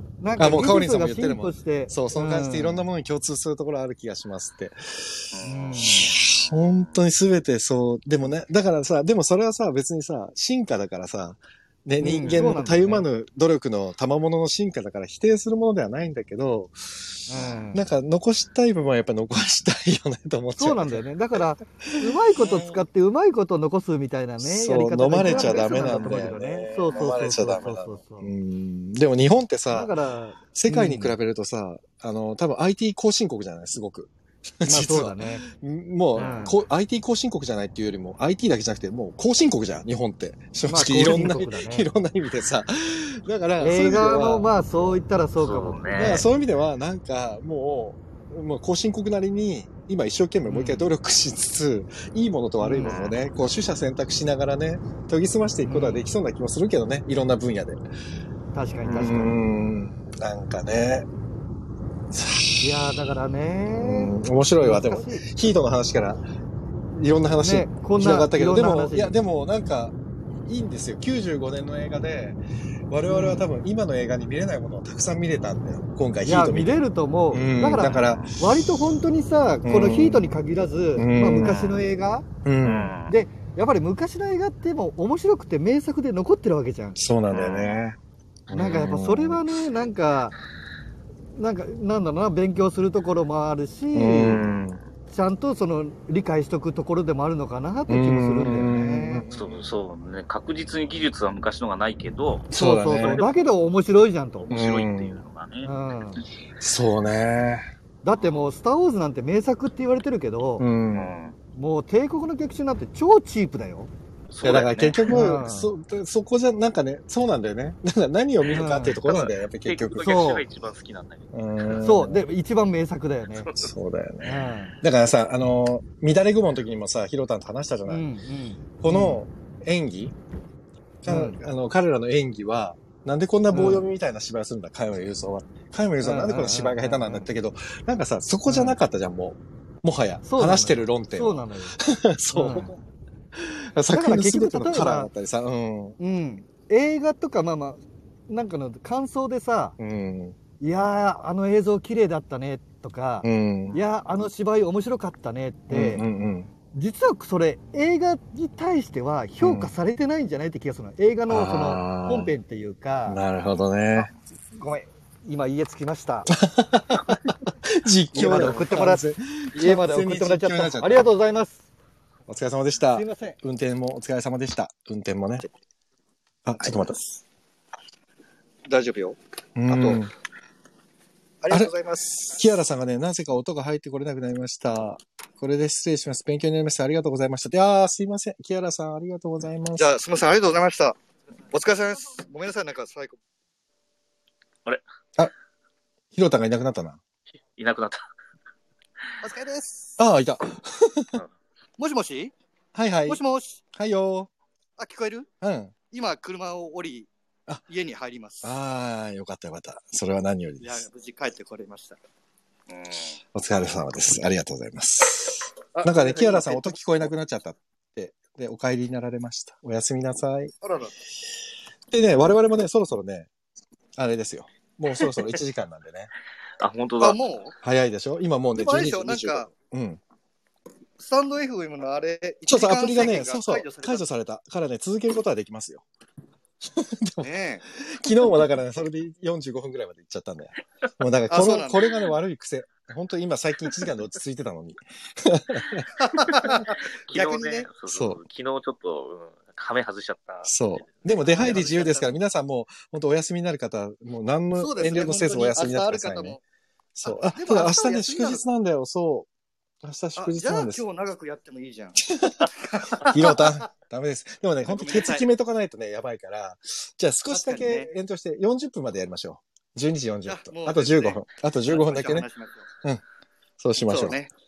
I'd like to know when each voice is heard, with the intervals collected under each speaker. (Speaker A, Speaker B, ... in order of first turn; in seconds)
Speaker A: 0.2-2.9, 5.4-6.1, 12.0-13.1, 17.3-17.9, 20.6-28.3, 29.7-31.2, 34.6-35.5, 36.2-36.6, 40.7-41.9, 43.6-46.2, 50.5-50.9, 52.6-53.0, 55.6-56.0, 58.5-59.4, 62.6-65.4, 67.4-69.1, 73.1-73.5, 76.2-82.3, 83.1-87.0, 88.5-90.3, 91.4-94.4, 95.1-99.3, 102.5-104.5, 105.6-106.2, 108.0-110.7, 111.6-113.9, 115.1-115.7, 118.5-119.0, 120.0-120.4, 121.8-123.5, 124.2-124.8, 127.9-129.2, 131.1-131.4, 133.5-133.9, 136.0-137.3, 138.5-138.8, 140.2-141.8, 142.3-142.7, 143.9-145.1, 146.0-149.8, 150.6-156.0, 156.7-163.2, 164.6-166.3, 168.1-171.6, 172.9-173.4, 178.7-180.0, 181.4-182.4, 189.8-191.0, 191.5-193.2, 199.2-199.9, 201.8-202.3, 203.1-203.6, 204.8-205.3, 205.9-207.1, 207.7-208.5, 210.6-212.0, 215.7-216.9, 220.6-220.9, 227.0-227.6, 228.6-229.5, 231.0-234.1, 237.2-237.7, 241.3-242.0, 246.0-247.7, 251.3-252.1, 254.6-256.4, 257.0-258.4, 260.2-263.6, 264.6-265.3, 267.3-267.9, 270.3-272.7, 273.9-274.3
Speaker B: 0.4-5.2, 5.8-16.8, 17.7-21.0, 21.9-22.8, 24.4-29.9, 30.5-44.5, 46.0-57.8, 58.9-61.1, 62.1-62.9, 63.7-66.2, 66.9-72.4, 72.9-78.4, 79.6-80.3, 81.0-81.6, 82.5-83.0, 87.0-89.4, 93.9-94.8, 97.9-99.6, 102.5-103.2, 104.5-105.2, 106.6-107.7, 110.6-111.1, 114.4-120.3, 121.3-122.2, 123.5-128.1, 128.8-130.2, 131.0-142.8, 143.4-146.0, 149.8-150.4, 153.2-153.8, 155.7-156.5, 159.4-159.7, 161.3-162.3, 163.1-164.1, 166.3-171.1, 172.3-175.5, 176.4-177.2, 179.6-180.1, 182.3-189.9, 196.1-197.0, 200.0-201.2, 202.7-203.2, 203.7-204.3, 205.4-205.7, 208.4-210.9, 213.3-220.5, 221.9-223.3, 224.0-226.1, 227.6-230.0, 232.5-235.8, 236.6-245.9, 247.9-248.2, 250.4-256.4, 256.9-259.3, 259.8-260.8, 262.1-272.3, 273.6-274.2
Speaker C: 5.3-7.0, 25.2-26.1, 36.2-36.5, 45.4-46.2, 52.8-53.2, 77.8-78.4, 81.4-81.8, 82.6-83.2, 87.3-87.8, 94.2-94.8, 99.3-103.4, 104.4-105.7, 108.1-108.4, 110.9-111.4, 114.3-115.2, 118.5-122.0, 123.4-123.7, 197.6-198.0, 212.7-213.2, 226.6-227.2, 247.1-251.6